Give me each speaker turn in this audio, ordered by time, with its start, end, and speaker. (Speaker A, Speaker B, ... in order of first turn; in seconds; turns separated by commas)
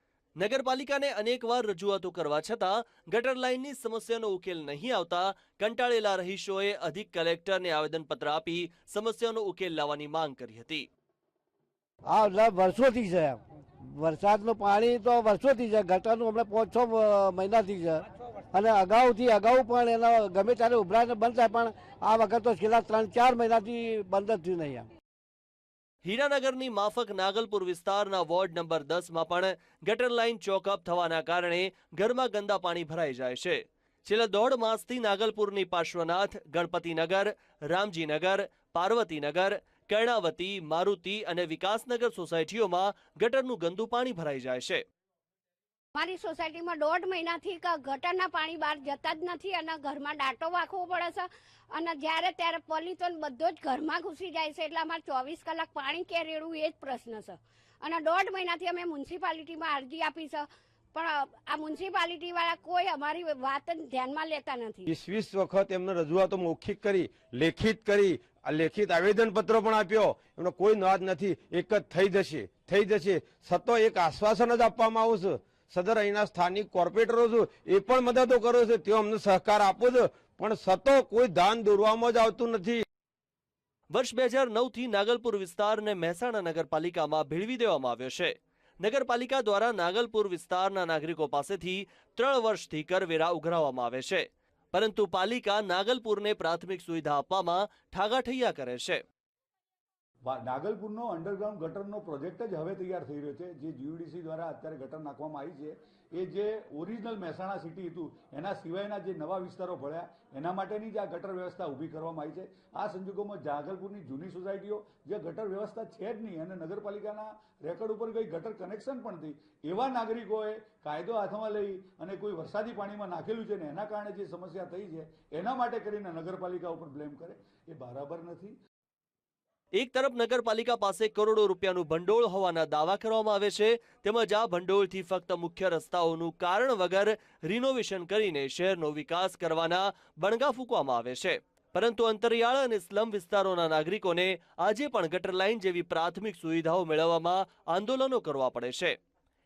Speaker A: 0.4-10.9, Speaker B: 12.1-24.9, Speaker A: 26.1-44.8, Speaker C: 46.0-64.9, Speaker D: 64.9-82.8, Speaker A: 83.9-99.0, Speaker E: 100.2-128.6, Speaker A: 129.8-149.0